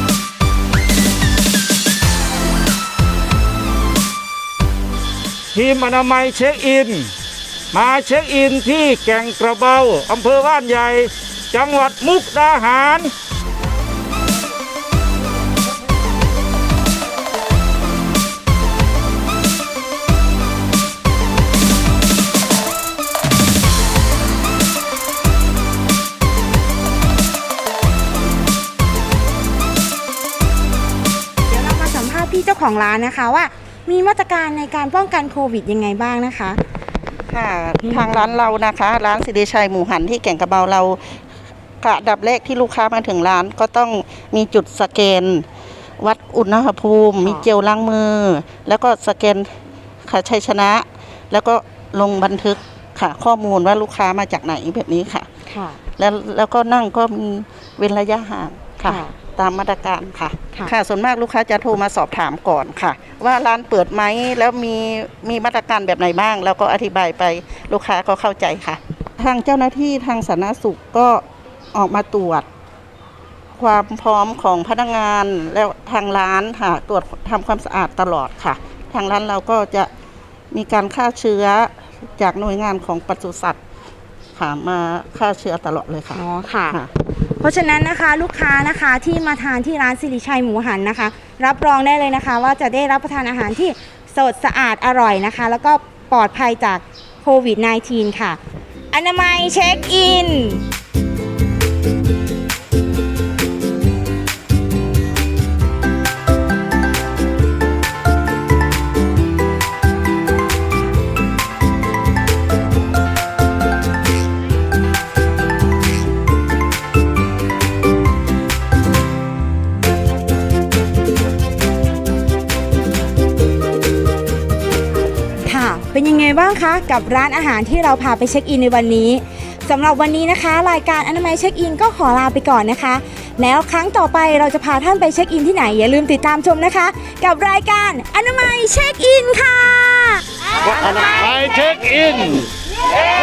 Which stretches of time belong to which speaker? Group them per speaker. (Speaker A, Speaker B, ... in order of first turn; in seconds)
Speaker A: 5.5-7.1, 7.7-13.1, 141.0-142.5
Speaker B: 31.5-36.6, 37.8-38.4, 55.5-55.8, 58.8-59.1, 86.1-86.8, 87.4-98.4, 98.9-100.7, 125.4-140.3, 141.0-141.4
Speaker C: 37.3-41.1, 41.8-45.5, 46.0-49.5, 50.0-55.3, 56.0-72.5, 73.6-79.9, 80.5-83.6, 84.3-86.9